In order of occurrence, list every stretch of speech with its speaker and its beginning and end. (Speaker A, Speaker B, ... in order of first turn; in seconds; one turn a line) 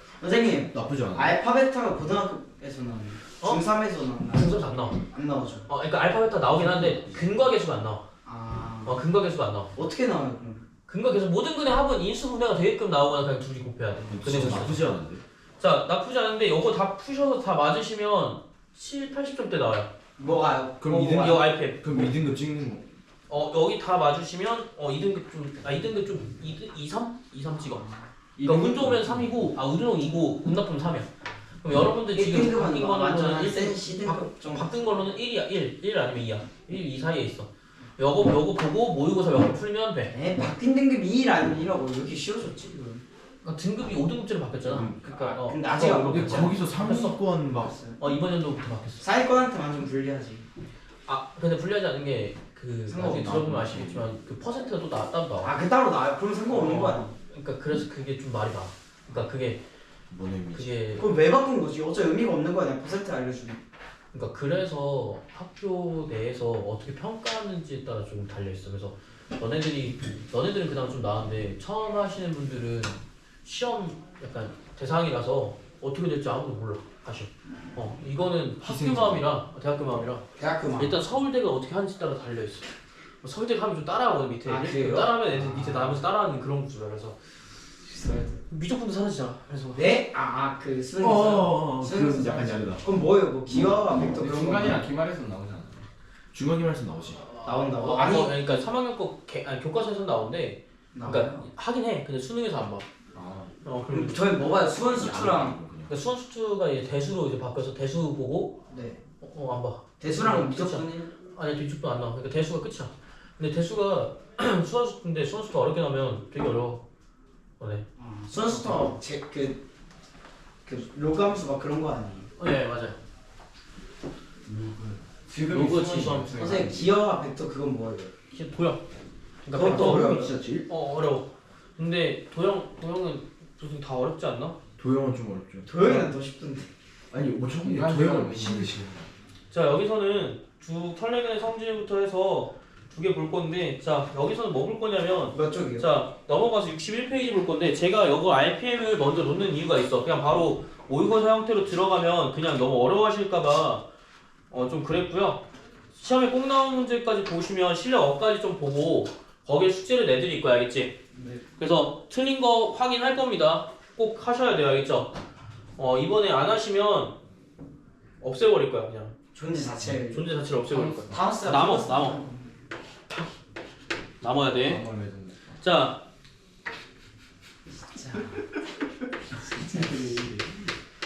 Speaker A: 0.2-5.7
Speaker B: 0.7-1.4
Speaker C: 4.3-5.0
Speaker C: 5.7-8.1
Speaker A: 6.6-7.1
Speaker A: 8.2-9.0
Speaker C: 8.8-9.7
Speaker A: 9.8-10.7
Speaker C: 10.9-14.9
Speaker B: 14.1-15.2
Speaker C: 15.6-19.9
Speaker A: 20.2-21.5
Speaker B: 20.8-22.8
Speaker C: 21.1-21.8
Speaker C: 23.3-31.1
Speaker D: 28.4-29.3
Speaker C: 31.6-40.1
Speaker A: 32.1-34.7
Speaker A: 40.1-43.0
Speaker C: 43.4-47.2
Speaker B: 44.7-45.0
Speaker A: 44.7-46.6
Speaker B: 45.9-47.8
Speaker A: 47.5-48.0
Speaker C: 48.0-49.0
Speaker A: 49.0-50.5
Speaker C: 51.1-55.5
Speaker A: 52.9-53.4
Speaker B: 53.1-54.1
Speaker A: 55.4-57.1
Speaker C: 56.5-59.6
Speaker B: 60.1-60.8
Speaker C: 60.5-61.0
Speaker A: 61.0-63.6
Speaker C: 64.1-80.3
Speaker B: 78.6-79.3
Speaker A: 80.4-81.0
Speaker C: 80.8-82.7
Speaker C: 83.2-87.2
Speaker A: 84.5-86.0
Speaker A: 87.8-88.4
Speaker C: 88.5-89.8
Speaker A: 89.7-94.8
Speaker B: 91.0-92.8
Speaker D: 94.0-95.9
Speaker B: 96.3-97.2
Speaker C: 97.3-102.9
Speaker A: 97.5-98.4
Speaker A: 100.9-101.5
Speaker D: 103.1-103.5
Speaker C: 103.6-104.3
Speaker A: 103.9-105.6
Speaker B: 104.8-105.9
Speaker C: 105.9-108.6
Speaker A: 108.7-109.0
Speaker C: 109.2-116.8
Speaker A: 110.0-111.1
Speaker C: 117.6-118.9
Speaker A: 118.0-119.6
Speaker A: 120.7-122.3
Speaker C: 122.4-123.0
Speaker B: 124.5-125.0
Speaker D: 125.3-126.9
Speaker C: 125.5-126.4
Speaker B: 125.7-126.2
Speaker A: 126.3-128.1
Speaker C: 128.3-128.8
Speaker C: 129.4-130.1
Speaker A: 129.5-130.3
Speaker B: 129.6-130.7
Speaker C: 130.7-134.6
Speaker B: 134.8-136.1
Speaker A: 135.7-136.7
Speaker B: 137.1-139.0
Speaker D: 137.6-139.1
Speaker C: 139.5-153.8
Speaker A: 145.3-145.9
Speaker C: 154.5-161.0
Speaker A: 161.1-161.4
Speaker C: 161.6-165.1
Speaker C: 165.8-167.2
Speaker C: 168.2-169.2
Speaker A: 169.3-172.6
Speaker C: 170.1-172.2
Speaker C: 174.2-174.8
Speaker D: 174.6-175.6
Speaker C: 175.6-176.0
Speaker A: 177.9-178.4
Speaker D: 179.7-180.6